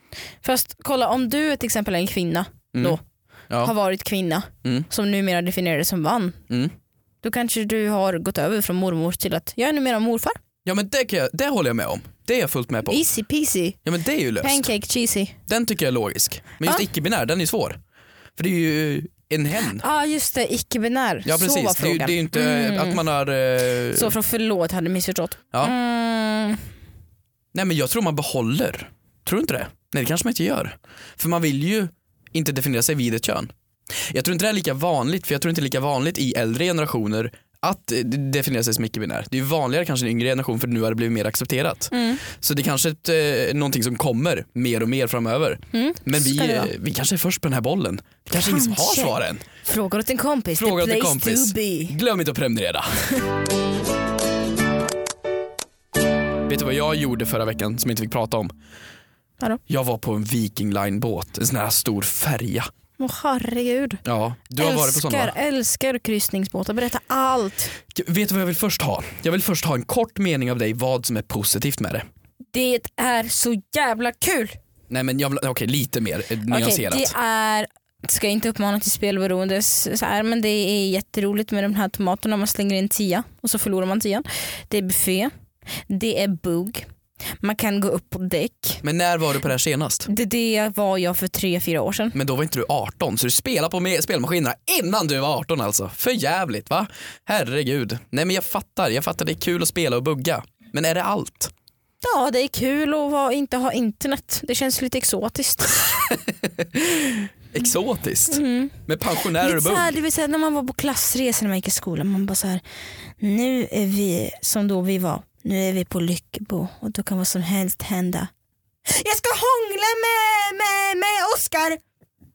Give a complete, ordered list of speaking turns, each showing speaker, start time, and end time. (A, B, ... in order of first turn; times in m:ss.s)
0:00.4-0:03.0 A
0:03.6-0:06.4 A
0:07.2-0:10.4 A
0:10.6-0:13.0 B
0:12.9-0:13.8 A
0:13.8-0:14.7 B
0:14.4-0:15.4 A
0:15.5-0:17.8 B
0:18.4-0:19.8 B
0:19.8-0:23.0 A
0:21.2-0:24.1 B
0:23.9-0:26.6 A
0:27.5-0:49.4 B
0:41.9-0:42.2 A
0:45.7-0:46.7 A
0:48.3-0:52.0 A
0:50.6-0:53.2 B
0:56.5-0:58.5 B
0:59.7-1:02.7 B
1:03.0-1:04.0 A
1:04.0-1:05.3 B
1:04.6-1:07.8 A
1:07.9-1:12.1 B
1:12.5-1:14.6 A
1:14.9-1:17.1 B
1:16.5-1:25.3 A
1:25.9-1:26.9 A
1:27.4-1:28.8 A
1:28.8-1:30.1 B
1:30.1-1:32.2 A
1:32.1-1:41.5 B
1:42.0-1:45.9 A
1:46.1-1:49.9 B
1:48.3-1:48.8 A
1:49.4-1:52.6 A
1:53.2-1:58.3 A
1:58.9-2:01.8 A